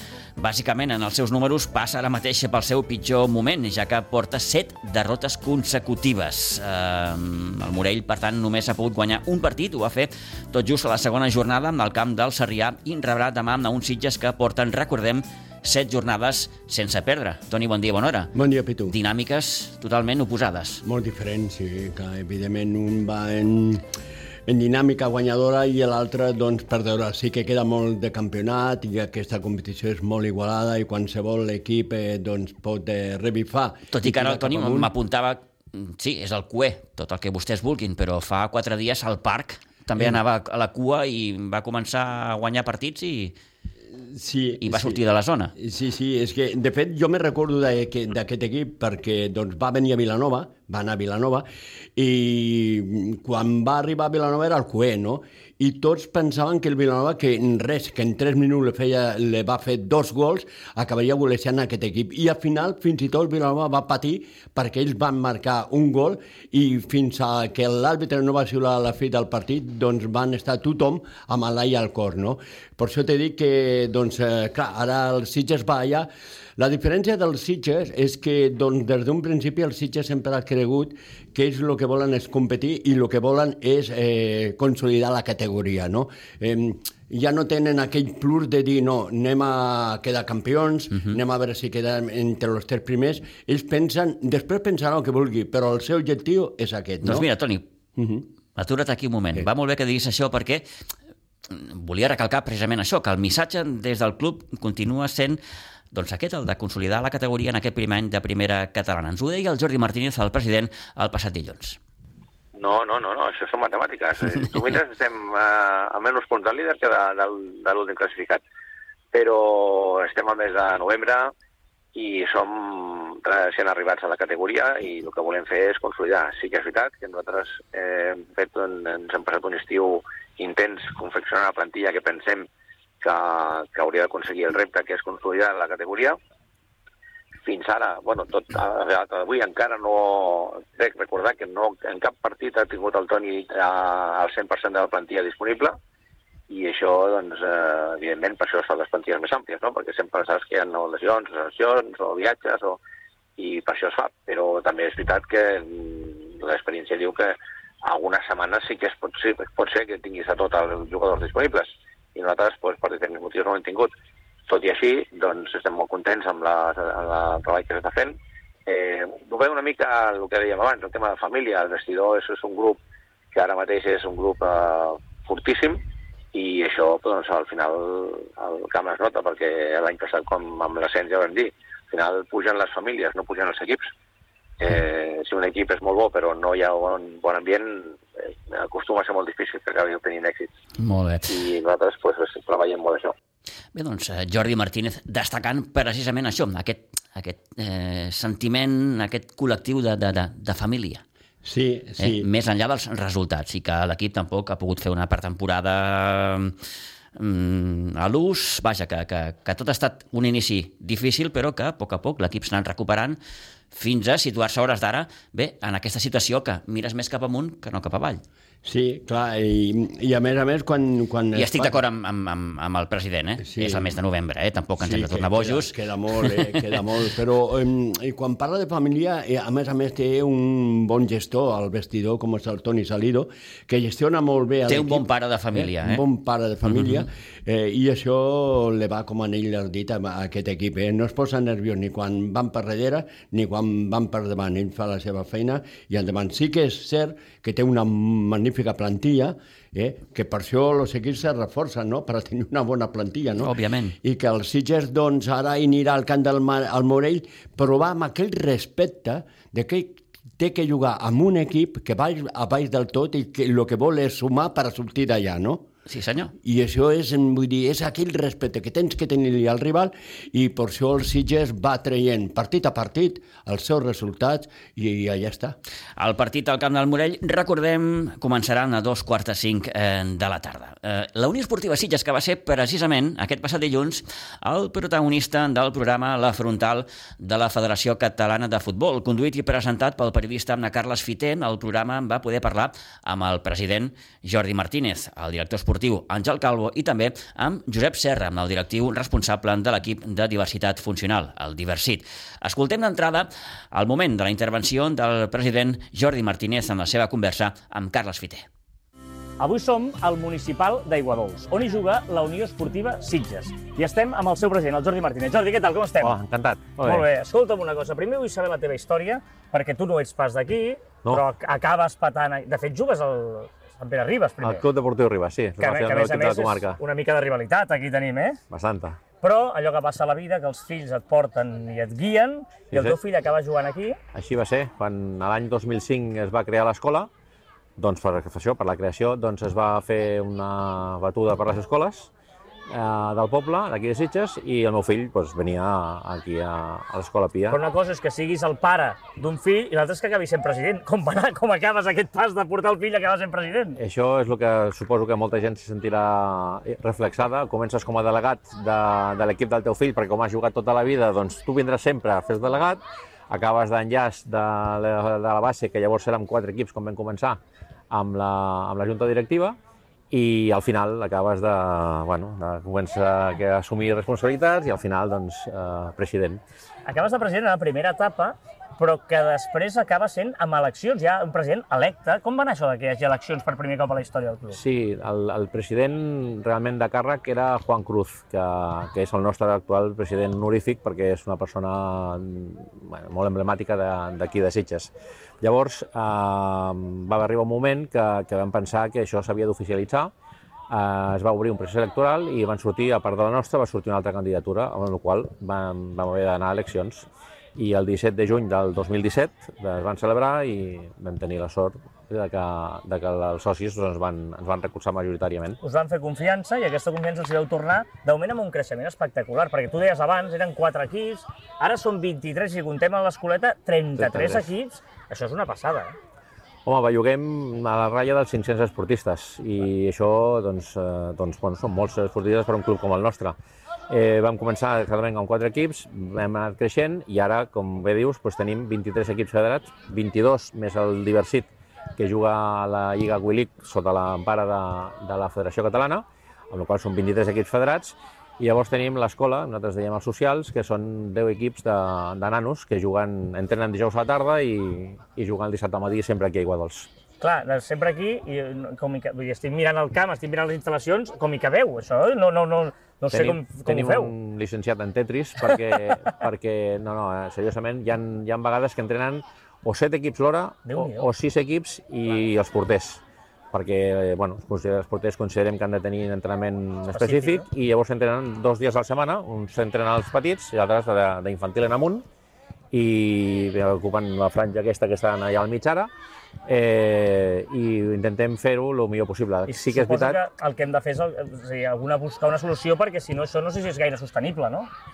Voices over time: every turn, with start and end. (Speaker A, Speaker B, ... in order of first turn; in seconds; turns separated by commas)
Speaker A: 0.4-18.3, Speaker B: 18.3-18.9, Speaker A: 18.9-20.8, Speaker B: 20.8-23.8, Speaker B: 24.5-34.9, Speaker A: 33.9-43.4, Speaker B: 43.9-45.0, Speaker A: 44.6-45.5, Speaker B: 45.5-51.4, Speaker B: 52.0-97.3, Speaker A: 97.0-97.6, Speaker B: 98.0-98.2, Speaker A: 98.6-100.6, Speaker A: 101.5-105.4, Speaker A: 105.9-111.8, Speaker C: 112.5-118.4, Speaker C: 119.1-121.3, Speaker C: 121.9-132.5, Speaker C: 133.0-136.2, Speaker C: 137.4-145.8, Speaker C: 146.5-152.8, Speaker C: 153.4-163.9, Speaker C: 164.5-172.8, Speaker C: 173.3-183.9, Speaker C: 184.6-190.5, Speaker A: 190.8-191.2, Speaker C: 191.3-193.1, Speaker A: 193.7-201.0, Speaker B: 201.4-202.2, Speaker A: 202.0-206.6, Speaker A: 207.2-213.2, Speaker A: 213.7-218.2, Speaker B: 218.6-221.8, Speaker A: 221.3-226.6, Speaker B: 223.4-223.9, Speaker B: 224.8-265.6, Speaker A: 234.7-236.0, Speaker A: 236.6-237.1, Speaker A: 253.4-253.9, Speaker A: 265.9-266.3, Speaker B: 266.4-275.6, Speaker A: 276.0-308.4, Speaker D: 309.4-316.2, Speaker E: 316.0-317.1, Speaker D: 316.8-324.6, Speaker E: 324.4-326.8, Speaker D: 325.6-328.4, Speaker E: 328.5-329.0, Speaker D: 329.2-334.0, Speaker E: 332.7-332.9, Speaker E: 334.1-337.1, Speaker E: 337.8-342.1, Speaker E: 342.7-347.6, Speaker D: 347.5-353.8, Speaker E: 353.8-369.6, Speaker E: 370.1-376.4, Speaker D: 376.9-384.6, Speaker E: 384.5-400.1, Speaker E: 400.7-415.6, Speaker D: 415.6-425.9, Speaker E: 424.0-424.5, Speaker E: 426.6-433.4, Speaker E: 433.9-456.9, Speaker D: 457.2-464.1, Speaker E: 463.1-482.1, Speaker D: 470.6-471.1, Speaker D: 476.9-477.4, Speaker E: 482.7-485.9, Speaker E: 486.4-490.2, Speaker D: 489.5-494.7